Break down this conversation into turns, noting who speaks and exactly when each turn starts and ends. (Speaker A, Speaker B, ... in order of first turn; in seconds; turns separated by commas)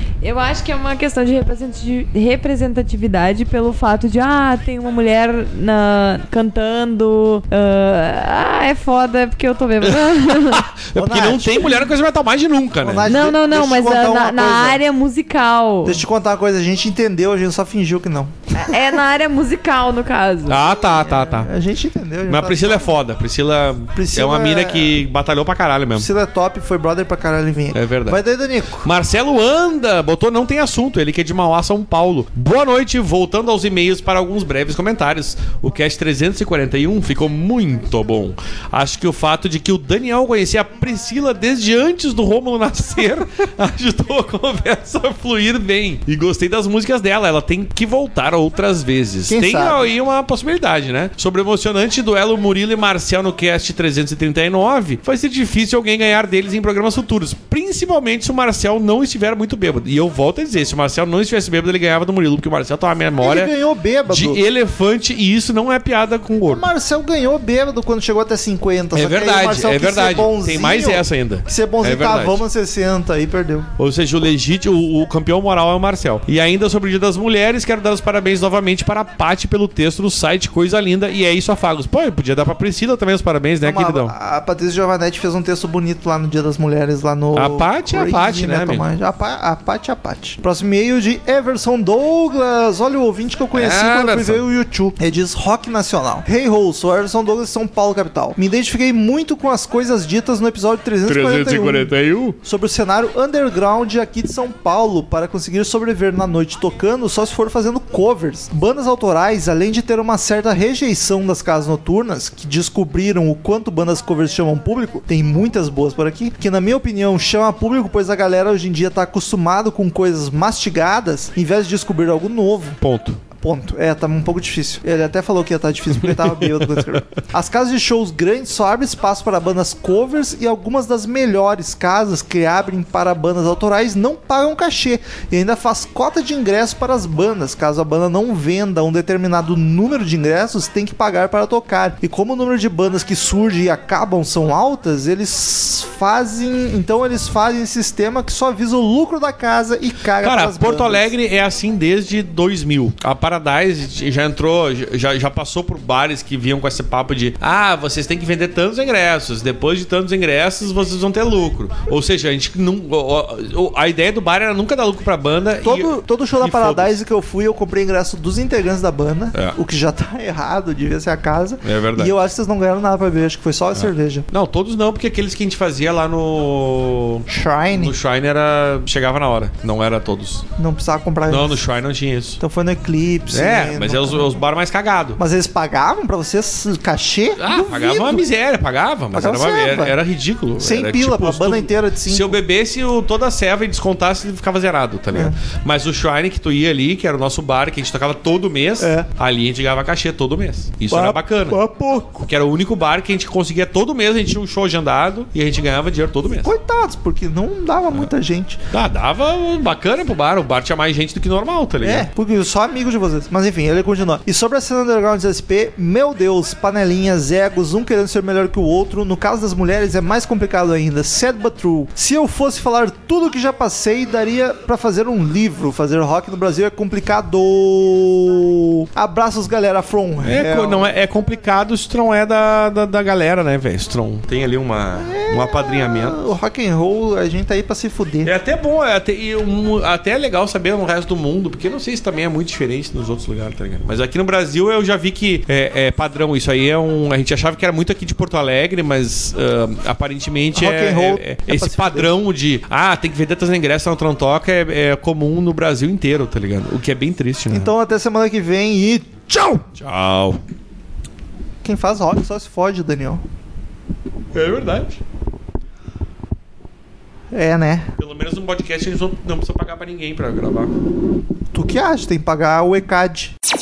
Speaker A: 0.2-10.7, Speaker B: 9.8-13.1, Speaker C: 10.9-11.8, Speaker C: 12.8-14.8, Speaker A: 13.1-16.0, Speaker C: 15.8-19.0, Speaker A: 18.6-20.6, Speaker B: 20.5-21.5, Speaker C: 20.9-22.9, Speaker B: 22.3-26.1, Speaker C: 24.0-25.0, Speaker C: 25.9-28.9, Speaker B: 27.7-28.2, Speaker B: 28.8-63.5, Speaker C: 49.3-49.8, Speaker C: 63.2-64.4, Speaker B: 64.1-66.7, Speaker C: 66.5-73.7, Speaker B: 68.9-72.4, Speaker B: 73.8-84.1, Speaker C: 83.6-122.8, Speaker B: 87.4-88.8, Speaker B: 93.5-94.4, Speaker B: 101.0-102.4, Speaker B: 122.8-123.2, Speaker C: 123.4-151.1, Speaker B: 126.1-127.0, Speaker B: 150.2-167.0, Speaker C: 165.6-174.3, Speaker B: 171.6-172.2, Speaker B: 173.8-180.4, Speaker C: 177.3-177.9, Speaker C: 180.6-181.6, Speaker B: 181.3-182.4, Speaker C: 182.4-184.4, Speaker B: 183.3-185.2, Speaker C: 185.2-188.2, Speaker B: 187.4-201.6, Speaker C: 189.1-189.9, Speaker C: 190.6-192.4, Speaker C: 198.8-199.1, Speaker C: 200.9-202.3, Speaker B: 202.3-206.5, Speaker C: 206.3-208.6, Speaker B: 208.7-212.1, Speaker C: 211.8-230.9, Speaker B: 230.2-236.2, Speaker C: 235.0-238.3, Speaker B: 238.2-257.7, Speaker C: 250.6-252.1, Speaker C: 257.5-259.6, Speaker B: 259.8-260.4, Speaker C: 261.6-263.2, Speaker B: 264.3-265.0, Speaker C: 267.3-267.9, Speaker B: 268.0-270.7, Speaker C: 271.5-273.3